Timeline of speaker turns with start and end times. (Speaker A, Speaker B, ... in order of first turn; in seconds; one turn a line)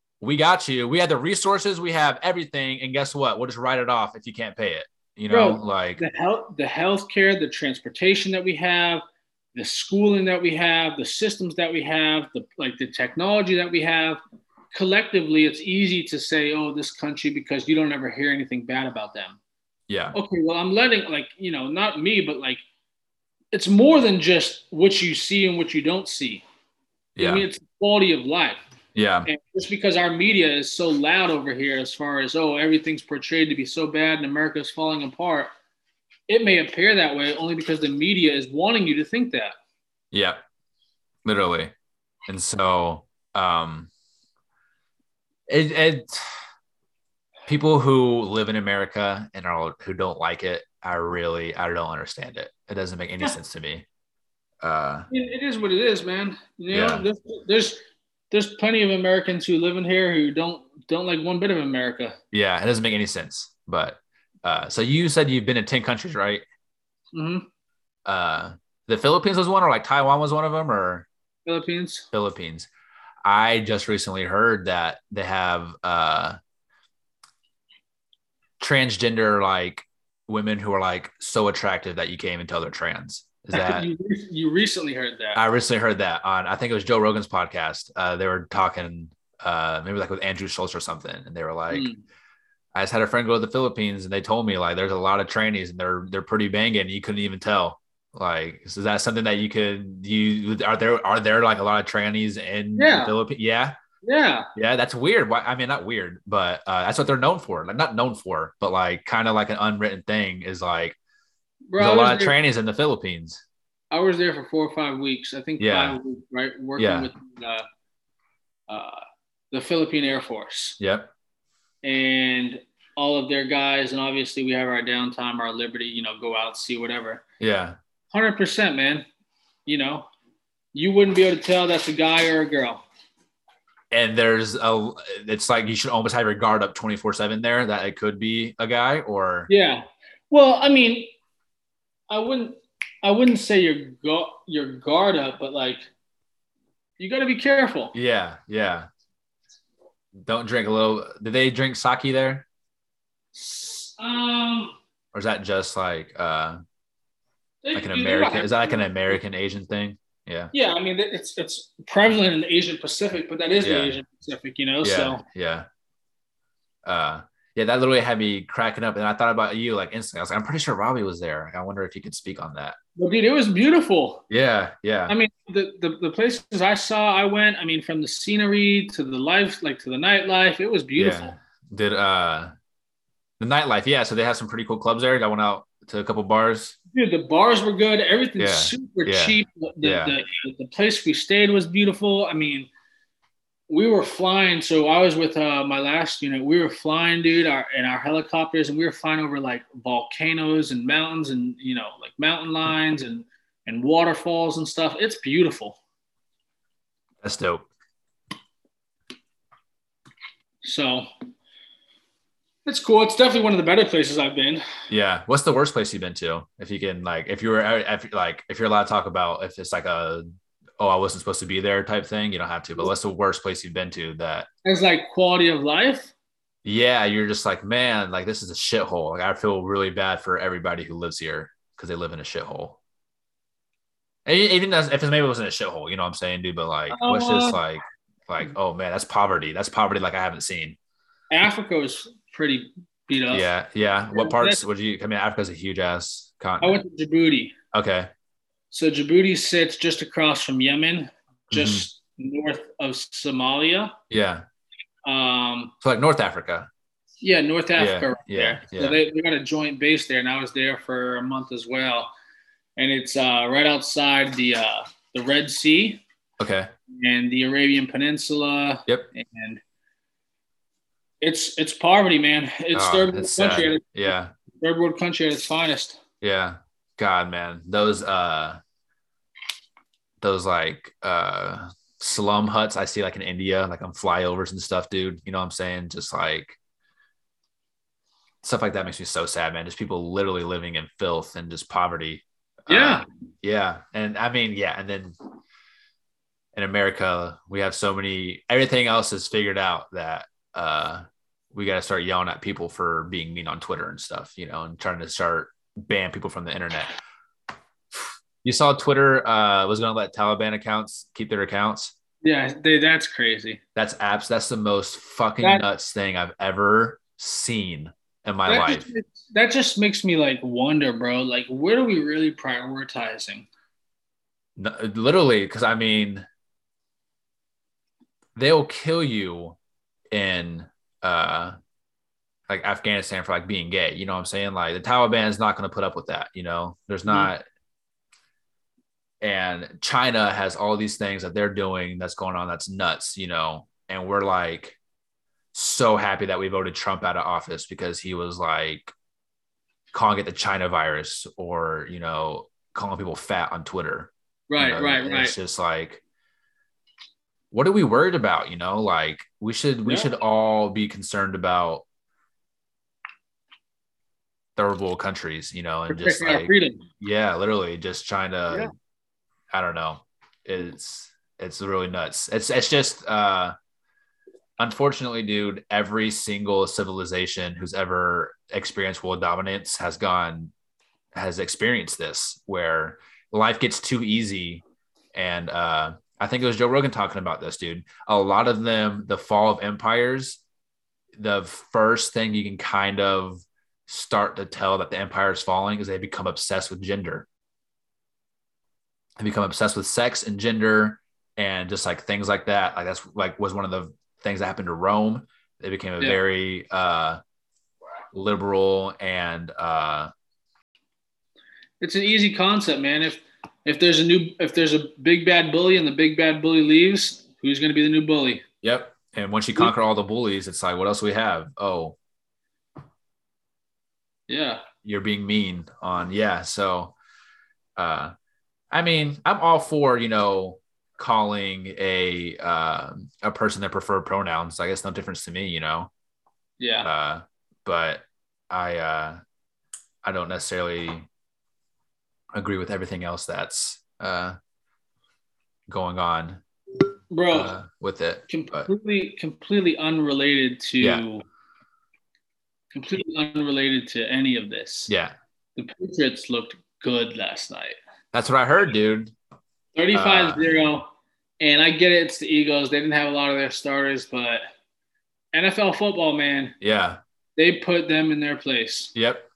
Speaker A: 0.2-6.0
Speaker B: 5.3-14.2
Speaker B: 14.7-19.4
Speaker A: 19.9-20.1
Speaker B: 20.1-22.6
Speaker B: 23.5-26.4
Speaker A: 27.1-27.4
Speaker B: 27.2-28.6
Speaker A: 28.9-29.3
Speaker B: 29.2-35.5
Speaker B: 36.3-39.5
Speaker A: 40.1-40.4
Speaker A: 41.2-41.7
Speaker A: 42.3-43.9
Speaker A: 45.5-46.3
Speaker A: 47.5-53.8
Speaker A: 54.6-55.1
Speaker B: 55.1-57.8
Speaker A: 56.7-57.0
Speaker B: 58.3-62.2
Speaker A: 62.3-66.4
Speaker B: 67.1-67.5
Speaker A: 68.0-71.1
Speaker B: 71.5-72.1
Speaker A: 72.1-72.7
Speaker A: 73.2-76.4
Speaker A: 78.6-83.9
Speaker B: 83.5-85.4
Speaker A: 85.3-91.9
Speaker B: 91.7-92.0
Speaker A: 92.7-103.7
Speaker B: 102.8-103.1
Speaker B: 104.0-104.5
Speaker A: 104.5-111.0
Speaker B: 111.7-112.3
Speaker A: 111.8-113.4
Speaker B: 113.9-117.6
Speaker A: 115.6-116.0
Speaker A: 116.8-117.1
Speaker B: 118.7-119.0
Speaker B: 119.5-120.8
Speaker A: 120.8-121.1
Speaker B: 121.8-127.2
Speaker A: 127.4-127.8
Speaker B: 128.1-129.1
Speaker B: 129.7-130.1
Speaker B: 130.7-132.8
Speaker A: 133.9-139.5
Speaker B: 139.5-141.1
Speaker B: 142.1-145.8
Speaker B: 147.0-147.9
Speaker A: 147.9-148.9
Speaker A: 150.2-152.4
Speaker B: 153.3-154.8
Speaker A: 155.1-156.6
Speaker B: 157.6-159.2
Speaker A: 157.7-160.5
Speaker B: 160.5-165.2
Speaker A: 163.6-164.0
Speaker A: 164.8-165.7
Speaker A: 166.8-172.8
Speaker B: 173.0-174.2
Speaker A: 174.3-175.1
Speaker B: 175.1-181.3
Speaker A: 180.9-182.5
Speaker A: 183.4-186.8
Speaker B: 186.9-192.7
Speaker A: 188.4-190.1
Speaker B: 193.7-205.8
Speaker A: 207.2-207.7
Speaker B: 210.6-211.1
Speaker B: 212.7-214.6
Speaker A: 214.9-220.2
Speaker A: 220.8-224.5
Speaker B: 224.6-226.1
Speaker A: 226.6-232.8
Speaker A: 234.2-240.8
Speaker B: 236.9-237.6
Speaker B: 241.3-243.5
Speaker A: 243.3-246.8
Speaker B: 244.1-244.6
Speaker B: 246.6-247.5
Speaker A: 247.7-248.1
Speaker B: 248.7-253.9
Speaker A: 251.5-251.8
Speaker A: 254.1-254.4
Speaker B: 255.0-255.7
Speaker A: 255.8-256.7
Speaker B: 257.2-262.1
Speaker A: 257.8-259.0
Speaker B: 262.8-266.0
Speaker A: 266.4-266.7
Speaker B: 266.9-269.6
Speaker B: 271.2-276.0
Speaker A: 272.7-274.3
Speaker A: 276.2-278.6
Speaker A: 280.2-286.6
Speaker A: 288.4-295.1
Speaker B: 292.7-293.0
Speaker A: 296.5-306.9
Speaker A: 307.9-311.9
Speaker B: 312.2-313.6
Speaker A: 313.7-318.9
Speaker B: 318.5-323.5
Speaker A: 324.6-326.2
Speaker A: 328.4-329.6
Speaker A: 330.1-331.6
Speaker A: 332.5-337.4
Speaker A: 339.2-344.8
Speaker A: 345.5-348.9
Speaker A: 349.9-356.0
Speaker B: 354.5-355.3
Speaker A: 357.5-361.8
Speaker B: 359.8-360.1
Speaker A: 364.6-368.7
Speaker B: 365.9-366.8
Speaker A: 369.5-373.5
Speaker A: 374.6-380.5
Speaker A: 381.1-384.6
Speaker A: 385.1-390.4
Speaker A: 391.2-397.3
Speaker A: 399.2-407.2
Speaker A: 408.1-410.1
Speaker B: 411.8-418.4
Speaker A: 418.6-421.9
Speaker B: 424.3-424.6
Speaker A: 424.8-426.9
Speaker A: 427.8-428.1
Speaker A: 428.7-435.9
Speaker B: 436.6-436.9
Speaker A: 436.8-439.2
Speaker A: 440.0-441.1
Speaker A: 442.3-444.4
Speaker A: 445.7-446.4
Speaker B: 447.1-447.5
Speaker A: 447.3-448.7
Speaker B: 448.3-451.2
Speaker A: 450.8-451.0
Speaker B: 452.7-454.9
Speaker A: 454.9-455.1
Speaker B: 455.6-457.8
Speaker A: 458.1-459.1
Speaker B: 459.7-460.9
Speaker A: 459.9-460.4
Speaker B: 461.4-464.4
Speaker B: 465.3-466.6
Speaker A: 466.6-467.0
Speaker B: 467.4-468.9
Speaker A: 468.9-469.3